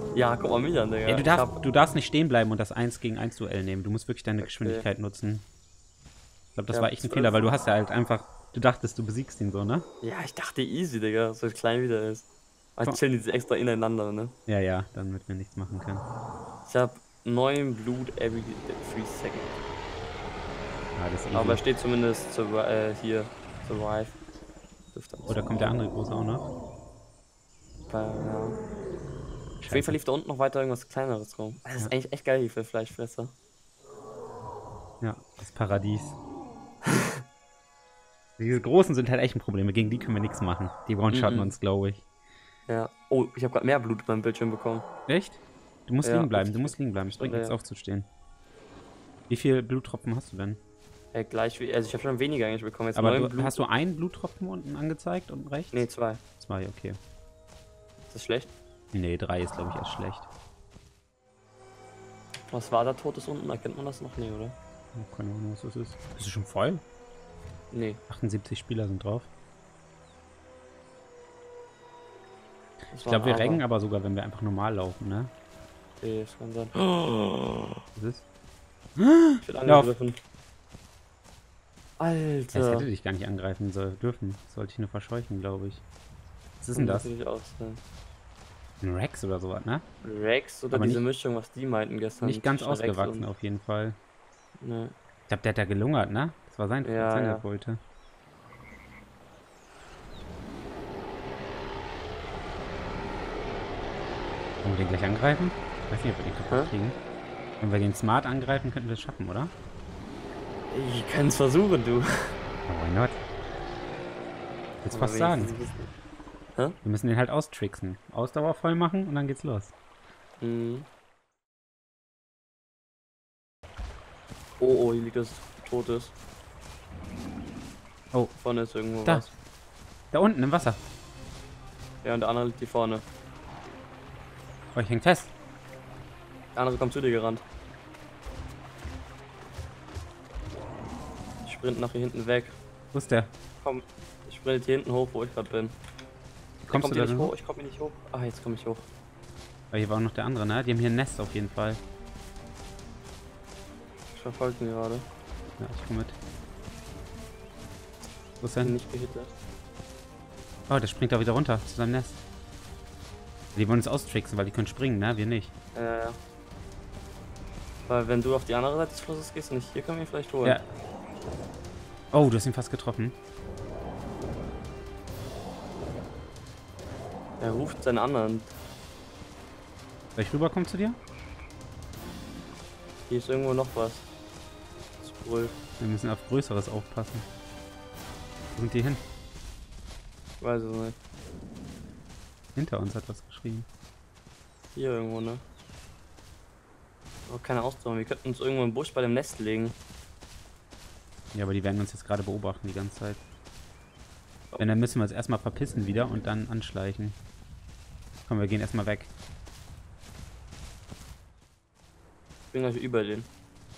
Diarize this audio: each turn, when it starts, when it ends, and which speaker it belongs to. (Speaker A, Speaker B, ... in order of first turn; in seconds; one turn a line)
Speaker A: 0.1-1.6
Speaker B: 1.1-5.5
Speaker A: 4.4-4.9
Speaker B: 6.5-9.9
Speaker A: 6.7-7.5
Speaker A: 10.0-12.2
Speaker A: 12.8-14.3
Speaker B: 14.5-16.1
Speaker A: 16.7-19.5
Speaker B: 21.0-21.6
Speaker A: 21.3-24.2
Speaker A: 24.9-25.7
Speaker B: 25.3-26.5
Speaker A: 27.9-28.6
Speaker B: 29.6-30.0
Speaker A: 29.7-33.3
Speaker B: 35.0-36.2
Speaker B: 38.4-42.0
Speaker A: 41.1-41.5
Speaker A: 42.7-44.9
Speaker B: 45.1-48.1
Speaker A: 46.0-47.5
Speaker B: 49.3-50.6
Speaker A: 51.1-53.6
Speaker B: 53.0-55.9
Speaker A: 55.7-56.2
Speaker B: 56.4-57.0
Speaker A: 58.1-58.5
Speaker B: 58.9-60.3
Speaker A: 62.5-64.6
Speaker B: 65.0-66.8
Speaker A: 67.7-68.0
Speaker B: 68.1-69.3
Speaker A: 72.9-73.6
Speaker B: 73.0-75.3
Speaker A: 76.0-77.8
Speaker B: 78.0-78.2
Speaker B: 79.0-79.9
Speaker A: 79.4-80.2
Speaker A: 82.0-82.9
Speaker B: 82.5-85.8
Speaker B: 86.6-87.1
Speaker A: 86.8-87.8
Speaker B: 88.8-89.8
Speaker A: 90.0-93.3
Speaker B: 90.7-91.0
Speaker B: 92.2-94.0
Speaker A: 94.6-94.9
Speaker B: 95.3-97.8
Speaker A: 96.8-97.5
Speaker B: 104.6-107.0
Speaker B: 107.6-109.5
Speaker A: 110.7-112.3
Speaker B: 112.7-113.2
Speaker B: 114.8-115.5
Speaker A: 114.9-115.9
Speaker B: 116.8-119.7
Speaker A: 120.4-120.9
Speaker A: 124.6-126.1
Speaker A: 128.4-129.3
Speaker B: 130.1-130.8
Speaker A: 132.0-133.1
Speaker B: 134.8-135.3
Speaker A: 136.6-137.4
Speaker A: 141.4-142.6
Speaker B: 142.9-143.3
Speaker A: 143.6-145.8
Speaker B: 146.7-147.3
Speaker A: 146.7-148.9
Speaker B: 149.7-151.8
Speaker A: 154.1-155.1
Speaker B: 155.6-156.2
Speaker B: 158.4-158.8
Speaker A: 158.6-159.3
Speaker B: 160.7-162.2
Speaker B: 163.6-165.5
Speaker A: 165.8-166.2
Speaker A: 167.9-170.6
Speaker B: 172.1-173.2
Speaker A: 177.4-178.5
Speaker B: 180.2-181.0
Speaker A: 183.1-184.1
Speaker A: 185.0-185.6
Speaker B: 185.8-187.3
Speaker B: 188.5-189.0
Speaker A: 190.4-191.0
Speaker B: 192.6-193.7
Speaker A: 194.8-195.4
Speaker A: 197.3-199.8
Speaker B: 201.3-203.2
Speaker B: 204.6-207.2
Speaker B: 208.3-209.1
Speaker A: 212.5-213.3